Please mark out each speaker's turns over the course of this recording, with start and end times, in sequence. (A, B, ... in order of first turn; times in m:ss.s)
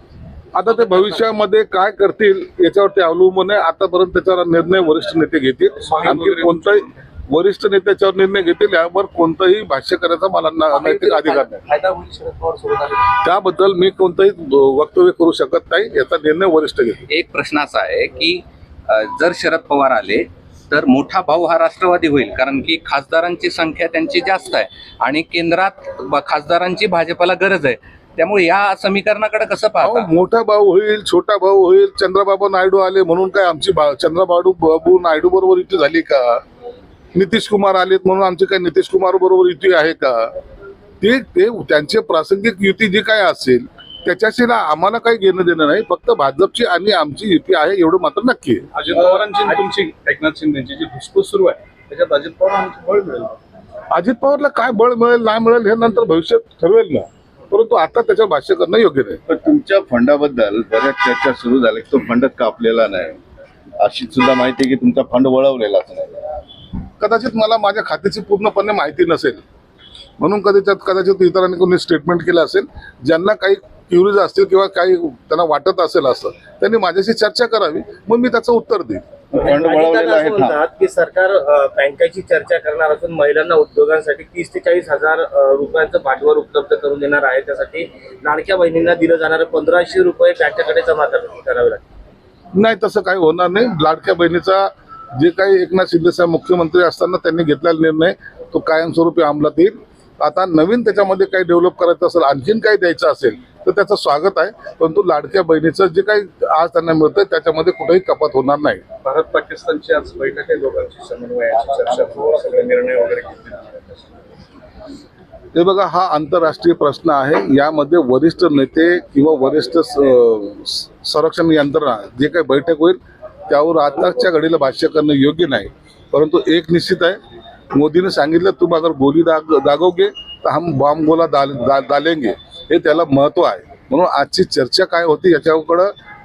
0:00.6-0:11.6 A
0:05.8-0:06.9 B
0:11.6-0:13.0 B
0:13.2-0:17.0 A
0:17.1-0:30.1 C
0:29.8-0:36.4 A
0:37.2-0:40.3 A
0:41.0-0:48.7 A
0:48.7-0:53.4 B
0:53.9-0:59.2 A
0:59.3-1:03.2 D
1:03.8-1:06.2 D
1:07.0-1:09.4 A
1:10.2-1:19.1 A
1:19.3-1:20.6 D
1:19.4-1:31.9 E
1:32.6-1:48.8 A
1:49.0-1:54.0 B
1:55.5-2:03.0 A
2:03.5-2:07.2 A
2:07.7-2:15.9 A